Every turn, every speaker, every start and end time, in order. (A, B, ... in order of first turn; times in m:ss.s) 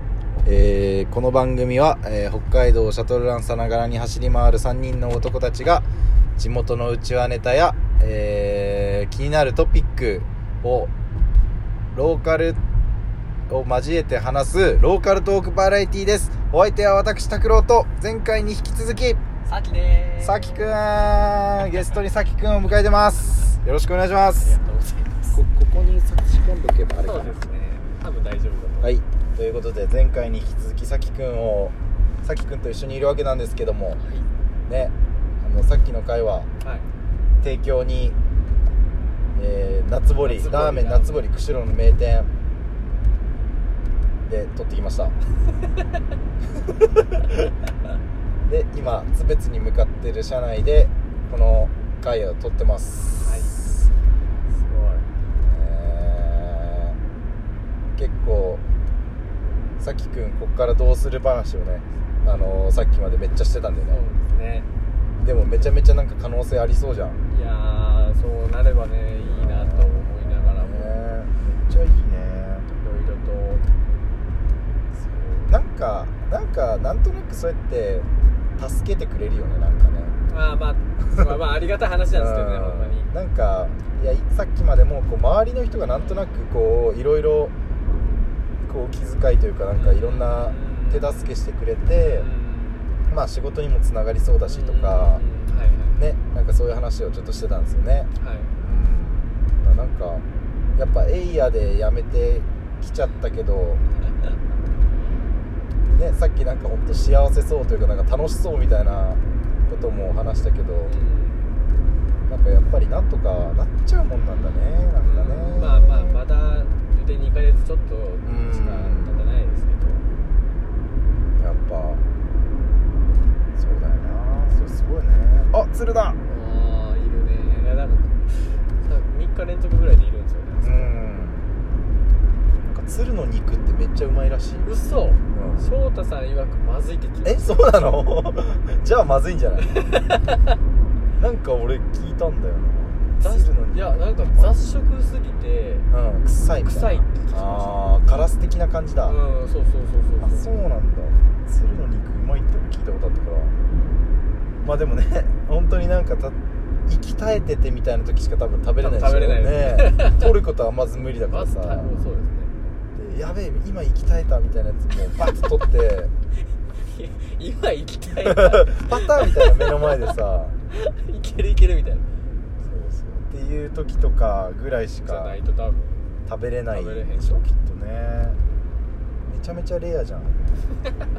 0:00.4-0:05.8 A
0:06.4-0:10.9 A
0:11.9-0:12.6 A
0:13.5-0:19.2 A
0:19.4-0:20.8 B
0:20.2-0:24.5 A
0:24.4-0:25.2 B
0:25.2-0:27.3 A
0:27.0-0:28.9 B
0:28.8-0:34.0 A
0:34.0-0:34.3 B
0:34.7-0:36.5 A
0:36.6-0:36.9 B
0:37.4-0:38.2 A
0:39.3-0:42.3 A
0:40.2-0:41.2 B
0:44.3-0:45.1 A
0:46.5-0:47.5 A
0:48.5-0:53.9 A
0:53.0-0:53.6 B
0:54.5-0:55.1 B
0:55.4-0:57.0 A
0:58.0-0:58.6 A
0:59.8-1:04.0 A
1:03.9-1:04.7 B
1:05.2-1:07.2 A
1:07.3-1:10.9 B
1:09.2-1:12.7 A
1:12.8-1:13.6 B
1:15.0-1:20.2 A
1:20.3-1:23.1 B
1:22.1-1:27.5 A
1:28.6-1:32.3 A
1:29.7-1:31.3 B
1:32.0-1:33.0 B
1:33.1-1:35.2 A
1:34.4-1:36.0 B
1:36.0-1:40.2 A
1:38.2-1:38.5 B
1:40.8-1:43.8 A
1:45.9-1:50.9 A
1:50.8-1:51.5 B
1:52.3-1:56.2 A
1:55.0-2:00.0 B
1:58.2-1:59.3 A
2:01.4-2:02.0 A
2:03.6-2:06.2 A
2:06.2-2:11.0 B
2:10.6-2:11.5 A
2:12.7-2:14.7 A
2:14.6-2:18.0 B
2:15.3-2:15.6 A
2:17.2-2:19.8 A
2:19.6-2:20.6 B
2:21.2-2:24.6 A
2:23.2-2:25.9 B
2:25.9-2:29.2 A
2:26.6-2:27.8 B
2:29.0-2:30.5 B
2:30.2-2:33.5 A
2:34.6-2:42.0 A
2:38.8-2:40.2 B
2:41.2-2:42.5 B
2:43.0-2:46.1 A
2:46.8-2:49.6 B
2:48.3-2:50.6 A
2:50.7-2:52.0 B
2:52.6-2:55.4 A
2:55.0-2:56.1 B
2:56.2-2:58.4 A
2:56.7-2:57.4 B
2:59.3-3:00.5 A